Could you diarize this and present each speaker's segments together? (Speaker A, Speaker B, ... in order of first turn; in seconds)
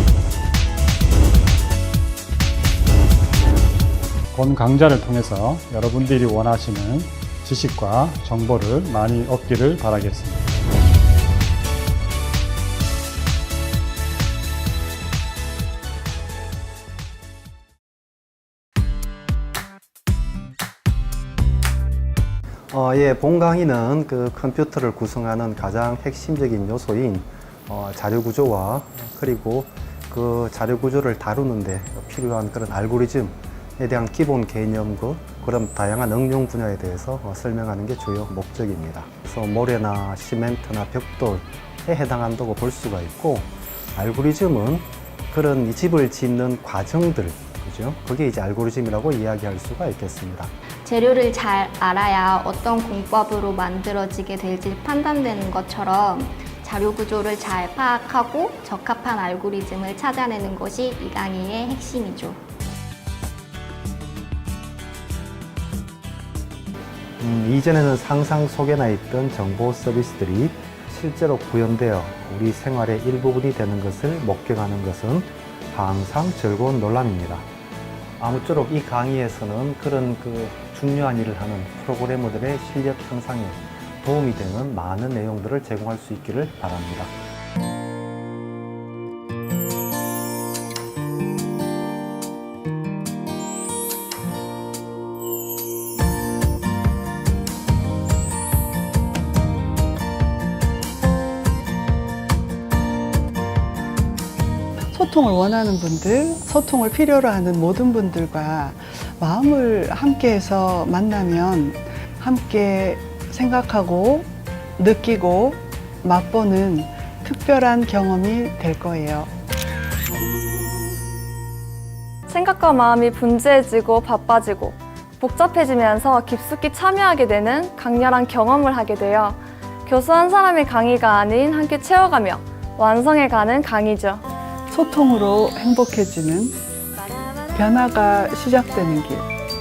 Speaker A: 4.3-10.5
Speaker B: 22.7-50.5, 67.2-77.5, 78.2-87.2
Speaker C: 50.8-62.4
Speaker D: 104.9-119.3, 134.7-136.6, 137.5-139.3
Speaker E: 122.3-134.2